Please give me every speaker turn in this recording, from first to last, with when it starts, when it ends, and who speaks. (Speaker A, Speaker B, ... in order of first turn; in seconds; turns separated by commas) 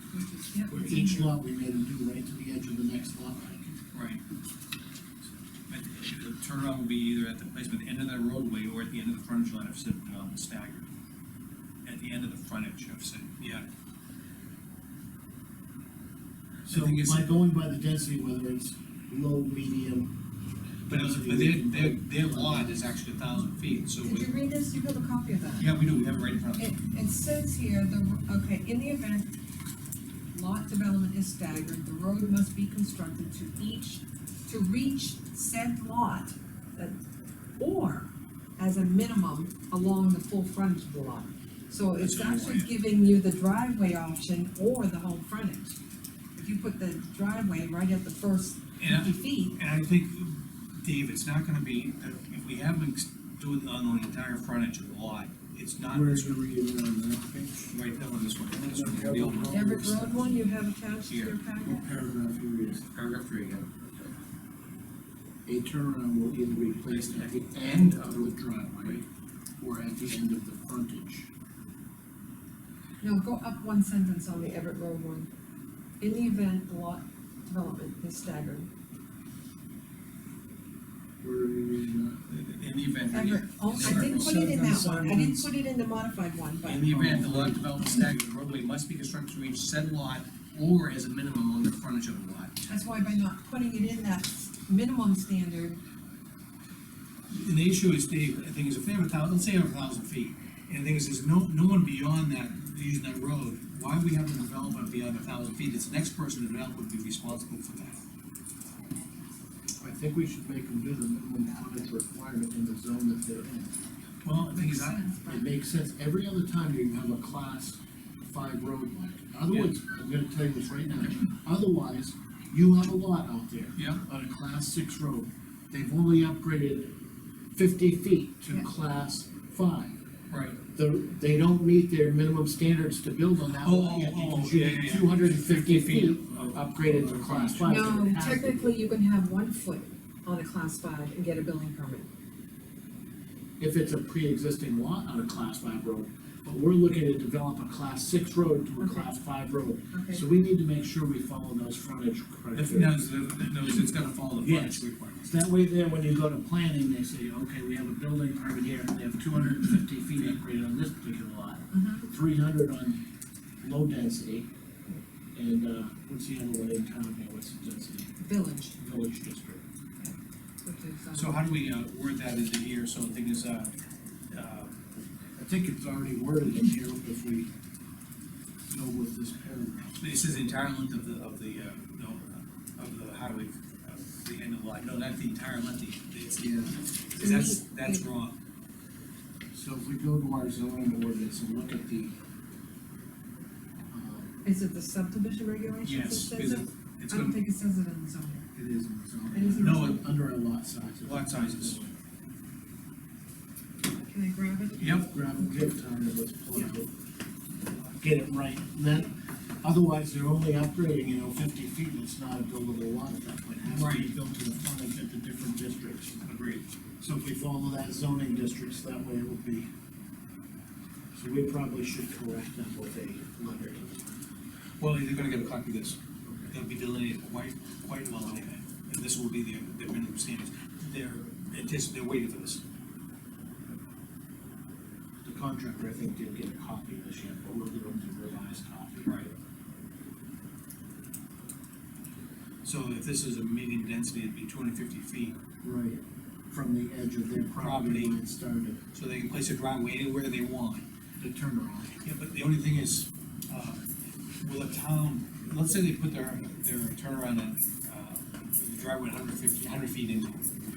Speaker A: 0.1-1.4, Speaker B: 0.7-3.8, Speaker C: 3.9-4.2, Speaker C: 5.7-10.9, Speaker C: 11.8-13.7, Speaker C: 16.7-17.4, Speaker B: 16.7-20.1, Speaker B: 20.9-22.9, Speaker C: 20.9-24.3, Speaker A: 24.0-25.7, Speaker C: 25.6-26.7, Speaker A: 26.6-29.3, Speaker A: 30.3-37.0, Speaker A: 37.6-45.8, Speaker C: 42.0-42.7, Speaker A: 46.4-49.6, Speaker C: 48.8-56.4, Speaker B: 55.9-57.8, Speaker C: 57.7-59.7, Speaker B: 58.6-60.3, Speaker A: 59.5-61.9, Speaker C: 61.1-61.4, Speaker B: 61.6-62.9, Speaker C: 62.9-64.1, Speaker B: 65.5-69.1, Speaker C: 66.9-69.0, Speaker B: 69.6-71.3, Speaker A: 73.0-75.3, Speaker A: 76.0-78.7, Speaker B: 81.2-82.2, Speaker C: 82.3-85.4, Speaker A: 83.1-87.0, Speaker B: 83.9-85.0, Speaker C: 86.7-92.7, Speaker B: 86.9-87.8, Speaker A: 92.7-95.8, Speaker C: 97.3-108.0, Speaker B: 109.8-113.7, Speaker C: 114.2-115.0, Speaker A: 114.3-115.5, Speaker B: 115.3-127.0, Speaker C: 123.8-124.0, Speaker B: 127.5-130.0, Speaker C: 130.3-130.6, Speaker B: 130.7-138.7, Speaker C: 133.6-137.9, Speaker A: 137.7-142.1, Speaker B: 143.6-153.1, Speaker A: 148.8-149.1, Speaker A: 149.9-150.3, Speaker C: 152.5-155.3, Speaker B: 154.4-163.0, Speaker A: 161.7-162.1, Speaker B: 163.6-164.5, Speaker B: 165.3-168.1, Speaker A: 168.2-168.8, Speaker B: 168.8-169.6, Speaker A: 170.0-171.4, Speaker C: 171.1-173.7, Speaker C: 174.3-174.8, Speaker B: 175.4-177.5, Speaker B: 178.7-180.0, Speaker C: 180.0-188.4, Speaker B: 186.4-186.8, Speaker A: 187.2-188.0, Speaker B: 189.5-192.2, Speaker B: 193.9-194.3, Speaker A: 194.4-198.4, Speaker C: 195.8-197.4, Speaker B: 198.5-201.9, Speaker A: 199.3-200.0, Speaker C: 199.6-200.1, Speaker C: 201.1-201.8, Speaker A: 204.0-205.6, Speaker C: 204.8-205.1, Speaker B: 204.8-206.9, Speaker B: 208.0-209.1, Speaker B: 209.6-216.2, Speaker C: 213.7-214.1, Speaker C: 216.2-216.7, Speaker B: 217.0-219.7, Speaker B: 221.1-224.0, Speaker C: 224.8-226.0, Speaker B: 226.2-226.5, Speaker C: 226.5-232.6, Speaker B: 235.2-239.3, Speaker C: 239.0-239.3, Speaker C: 242.6-245.4, Speaker B: 245.6-248.8, Speaker C: 247.5-248.2, Speaker C: 248.9-250.8, Speaker B: 251.2-252.0, Speaker C: 252.0-253.8, Speaker C: 254.4-260.5